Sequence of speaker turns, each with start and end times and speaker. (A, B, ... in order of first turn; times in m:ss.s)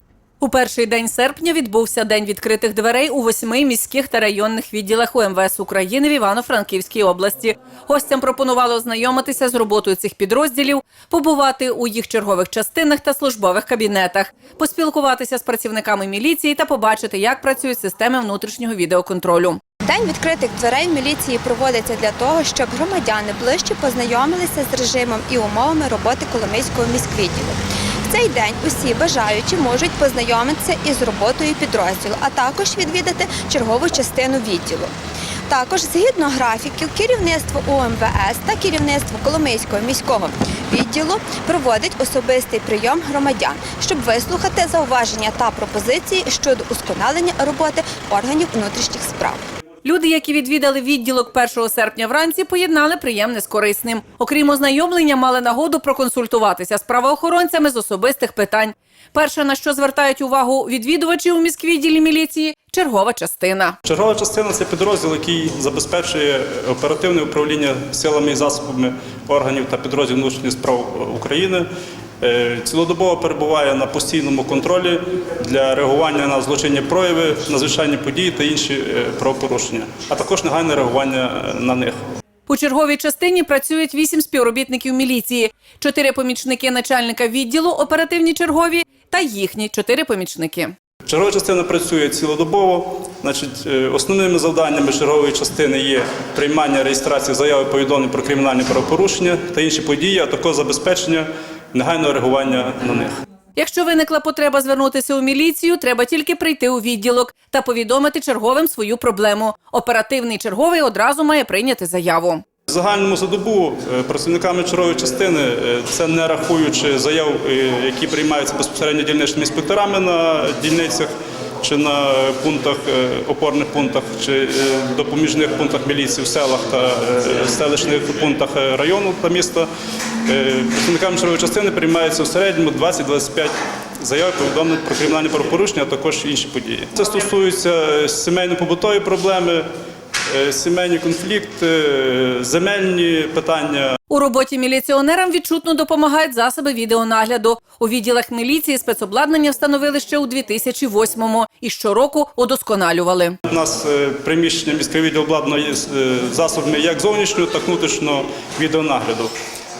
0:00.4-0:19.6 A
0:19.9-0:34.9 B
0:35.5-0:49.4 B
0:49.8-1:03.8 A
1:03.8-1:11.7 C
1:12.2-1:22.0 C
1:22.5-1:30.7 A
1:31.1-1:43.2 C
1:43.6-1:52.4 A
1:52.7-2:01.1 C
2:01.6-2:09.7 C
2:10.3-2:19.7 C
2:20.3-2:24.0 C
2:24.1-2:33.4 A
2:33.5-2:39.3 C